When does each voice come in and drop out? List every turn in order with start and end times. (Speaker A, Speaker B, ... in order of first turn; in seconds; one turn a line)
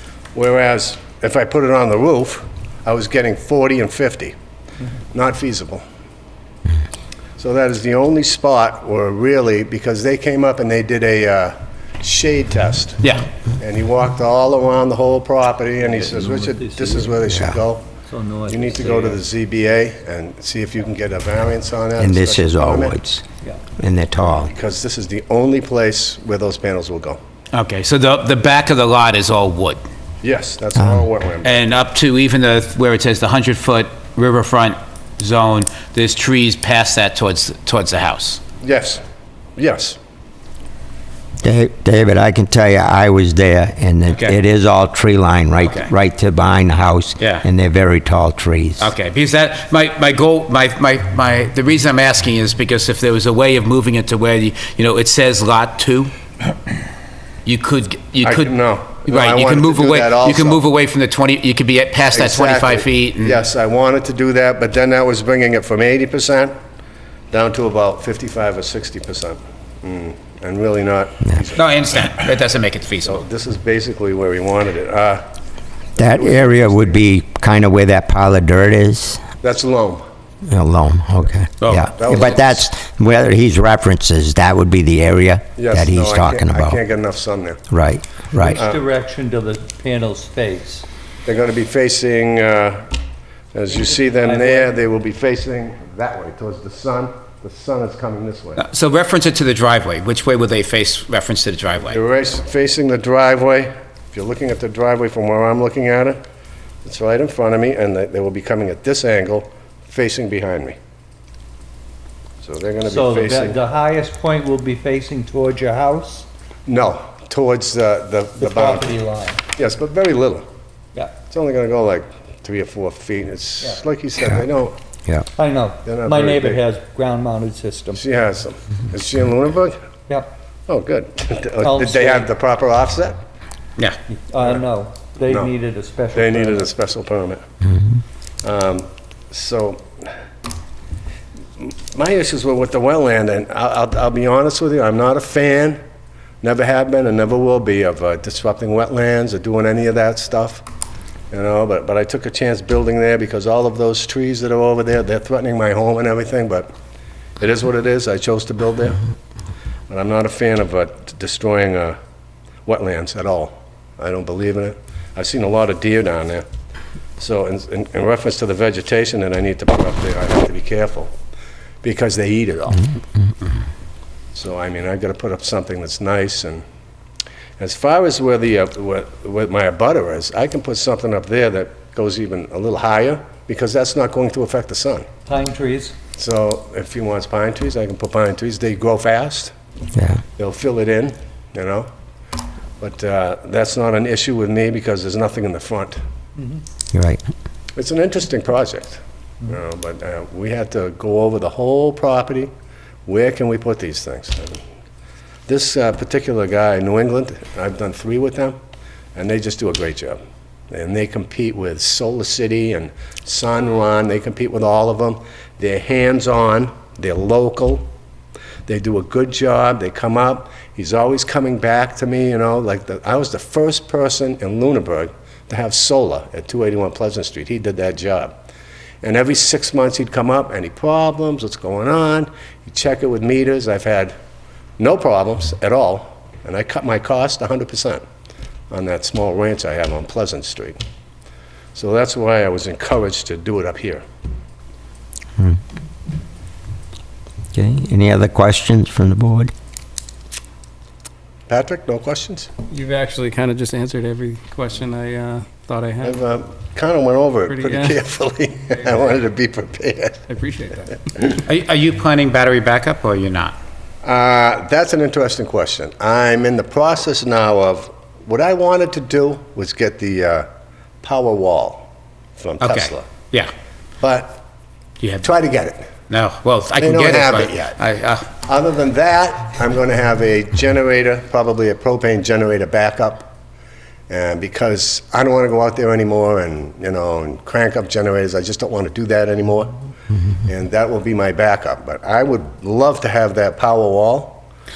Speaker A: 0.3-4.3
Speaker A: 5.1-5.8
Speaker A: 7.4-13.1
Speaker A: 13.6-17.9
Speaker B: 15.8-17.1
Speaker C: 17.3-17.6
Speaker B: 18.0-19.2
Speaker A: 18.5-23.0
Speaker C: 22.0-23.2
Speaker C: 23.8-24.5
Speaker A: 24.2-27.2
Speaker D: 27.5-29.8
Speaker A: 30.2-31.7
Speaker D: 31.4-38.4
Speaker A: 38.6-39.0
Speaker A: 39.6-40.0
Speaker C: 41.4-48.9
Speaker D: 44.1-44.4
Speaker D: 45.6-45.9
Speaker D: 48.8-56.1
Speaker D: 57.4-63.4
Speaker A: 58.2-60.6
Speaker A: 62.1-66.5
Speaker A: 67.3-72.0
Speaker D: 71.5-73.2
Speaker A: 73.0-75.2
Speaker A: 76.0-77.0
Speaker C: 76.0-79.2
Speaker A: 79.4-80.0
Speaker C: 80.5-86.8
Speaker D: 81.6-81.9
Speaker A: 81.8-82.6
Speaker A: 85.5-87.6
Speaker C: 87.7-88.6
Speaker B: 88.4-90.8
Speaker A: 88.5-88.8
Speaker A: 91.2-92.9
Speaker A: 93.5-98.6
Speaker B: 93.7-94.7
Speaker D: 98.6-102.0
Speaker A: 101.8-106.2
Speaker A: 106.8-110.8
Speaker A: 112.4-113.6
Speaker B: 112.8-116.3
Speaker A: 116.7-119.0
Speaker B: 118.4-119.4
Speaker A: 119.5-120.5
Speaker A: 121.3-124.8
Speaker B: 125.3-128.0
Speaker A: 125.8-126.6
Speaker A: 127.9-129.8
Speaker A: 130.7-133.2
Speaker B: 131.6-132.3
Speaker B: 134.1-136.7
Speaker A: 134.4-134.7
Speaker A: 135.2-135.5
Speaker A: 136.1-137.4
Speaker A: 138.4-140.1
Speaker A: 141.6-145.8
Speaker A: 146.4-150.6
Speaker A: 151.3-156.7
Speaker A: 157.4-159.0
Speaker A: 159.9-162.0
Speaker A: 162.7-166.4
Speaker A: 167.2-171.1
Speaker A: 171.8-172.9
Speaker A: 174.3-176.6
Speaker A: 177.6-185.1
Speaker B: 185.3-185.9
Speaker A: 186.2-189.5
Speaker C: 189.9-190.2
Speaker A: 190.4-191.9
Speaker A: 192.8-196.0
Speaker C: 196.9-197.2
Speaker A: 197.8-202.5
Speaker A: 203.1-204.6
Speaker A: 205.5-208.6
Speaker A: 209.1-210.2
Speaker A: 210.7-217.9
Speaker A: 218.7-228.3
Speaker A: 229.0-234.1
Speaker A: 234.8-238.0
Speaker A: 238.7-240.8
Speaker A: 241.7-244.0
Speaker C: 247.5-249.5
Speaker A: 251.5-252.5
Speaker E: 252.7-256.2
Speaker A: 256.0-260.2
Speaker E: 257.5-257.9
Speaker E: 260.3-260.9
Speaker D: 261.4-263.6
Speaker A: 264.0-270.5
Speaker A: 271.0-273.1
Speaker D: 272.6-273.5
Speaker A: 274.0-274.4
Speaker D: 275.0-275.3
Speaker A: 275.2-275.9
Speaker D: 276.1-278.2
Speaker A: 276.8-277.8
Speaker A: 278.4-283.3
Speaker A: 284.1-289.7
Speaker A: 290.4-294.4